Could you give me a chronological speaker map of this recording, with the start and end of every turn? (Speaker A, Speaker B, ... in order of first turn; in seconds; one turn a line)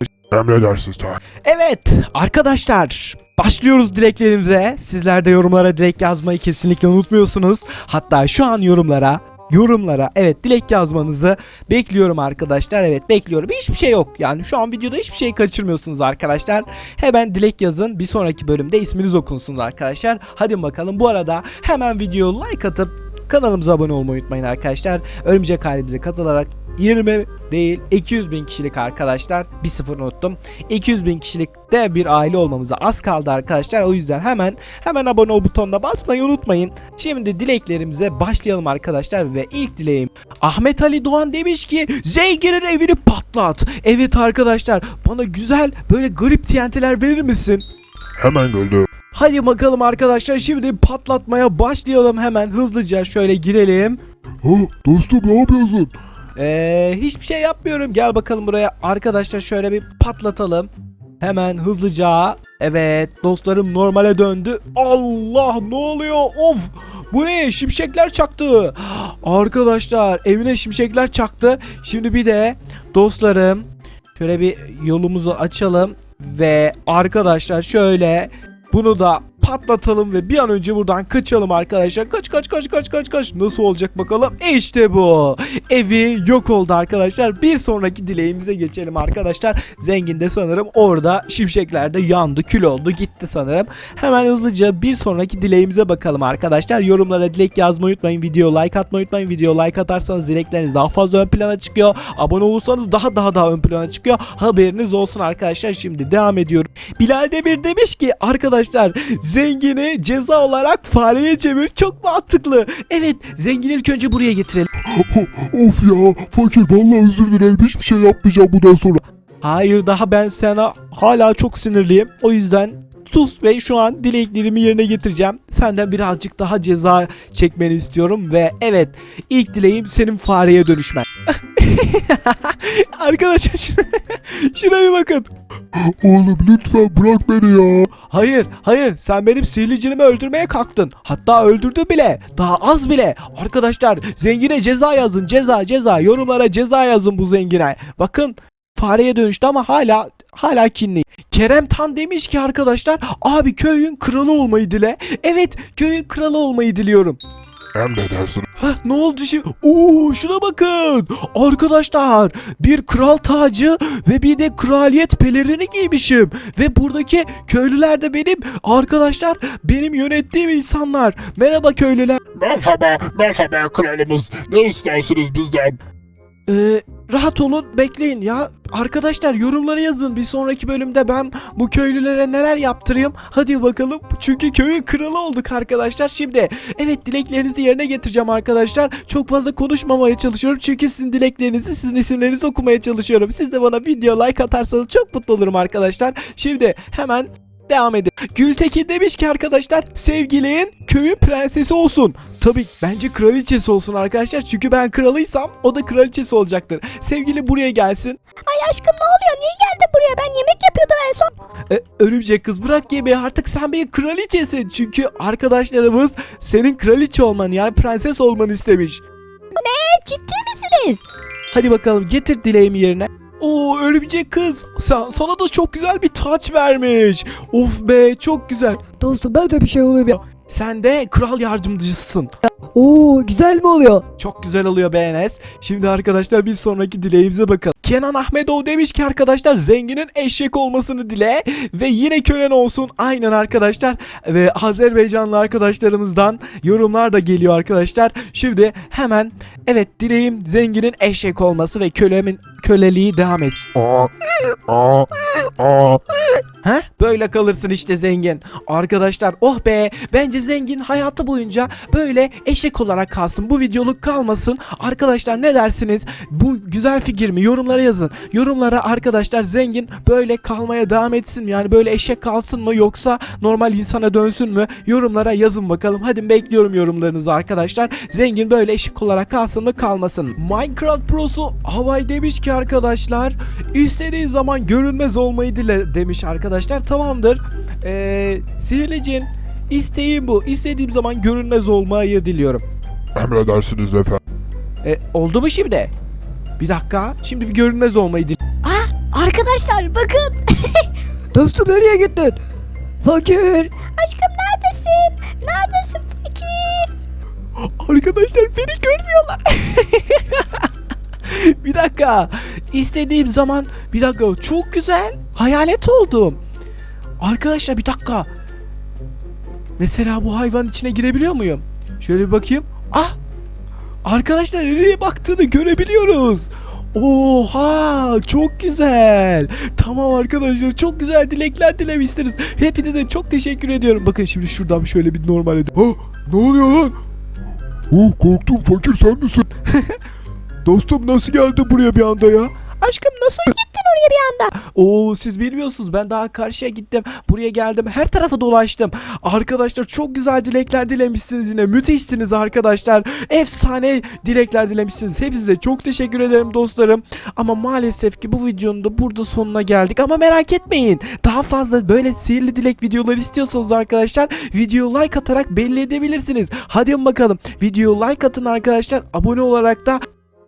Speaker A: 0.3-1.2
Speaker B: 1.4-47.6
Speaker A: 48.2-48.9
Speaker B: 49.1-54.0
Speaker A: 54.4-55.9
Speaker B: 56.4-114.7
Speaker A: 115.3-116.6
Speaker B: 119.4-135.3
Speaker B: 135.9-157.2
Speaker A: 157.8-158.5
Speaker B: 158.6-172.2
Speaker A: 172.4-175.8
Speaker B: 176.5-208.2
Speaker C: 208.5-211.3
Speaker B: 211.7-219.0
Speaker C: 219.6-221.0
Speaker B: 221.5-228.8
Speaker D: 229.0-230.2
Speaker B: 230.4-232.3
Speaker D: 232.5-234.1
Speaker B: 234.2-253.7
Speaker A: 253.8-256.0
Speaker B: 256.6-292.6
Speaker A: 293.1-294.2
Speaker B: 294.8-295.9
Speaker B: 296.6-298.4
Speaker C: 298.6-300.9
Speaker D: 301.3-302.4
Speaker D: 303.0-303.7
Speaker C: 303.8-306.9
Speaker B: 307.6-310.7
Speaker B: 311.2-316.4
Speaker B: 317.2-318.3
Speaker B: 319.8-323.2
Speaker B: 324.0-336.9
Speaker B: 337.9-340.0
Speaker B: 340.6-343.6
Speaker C: 343.5-344.5
Speaker B: 344.5-370.1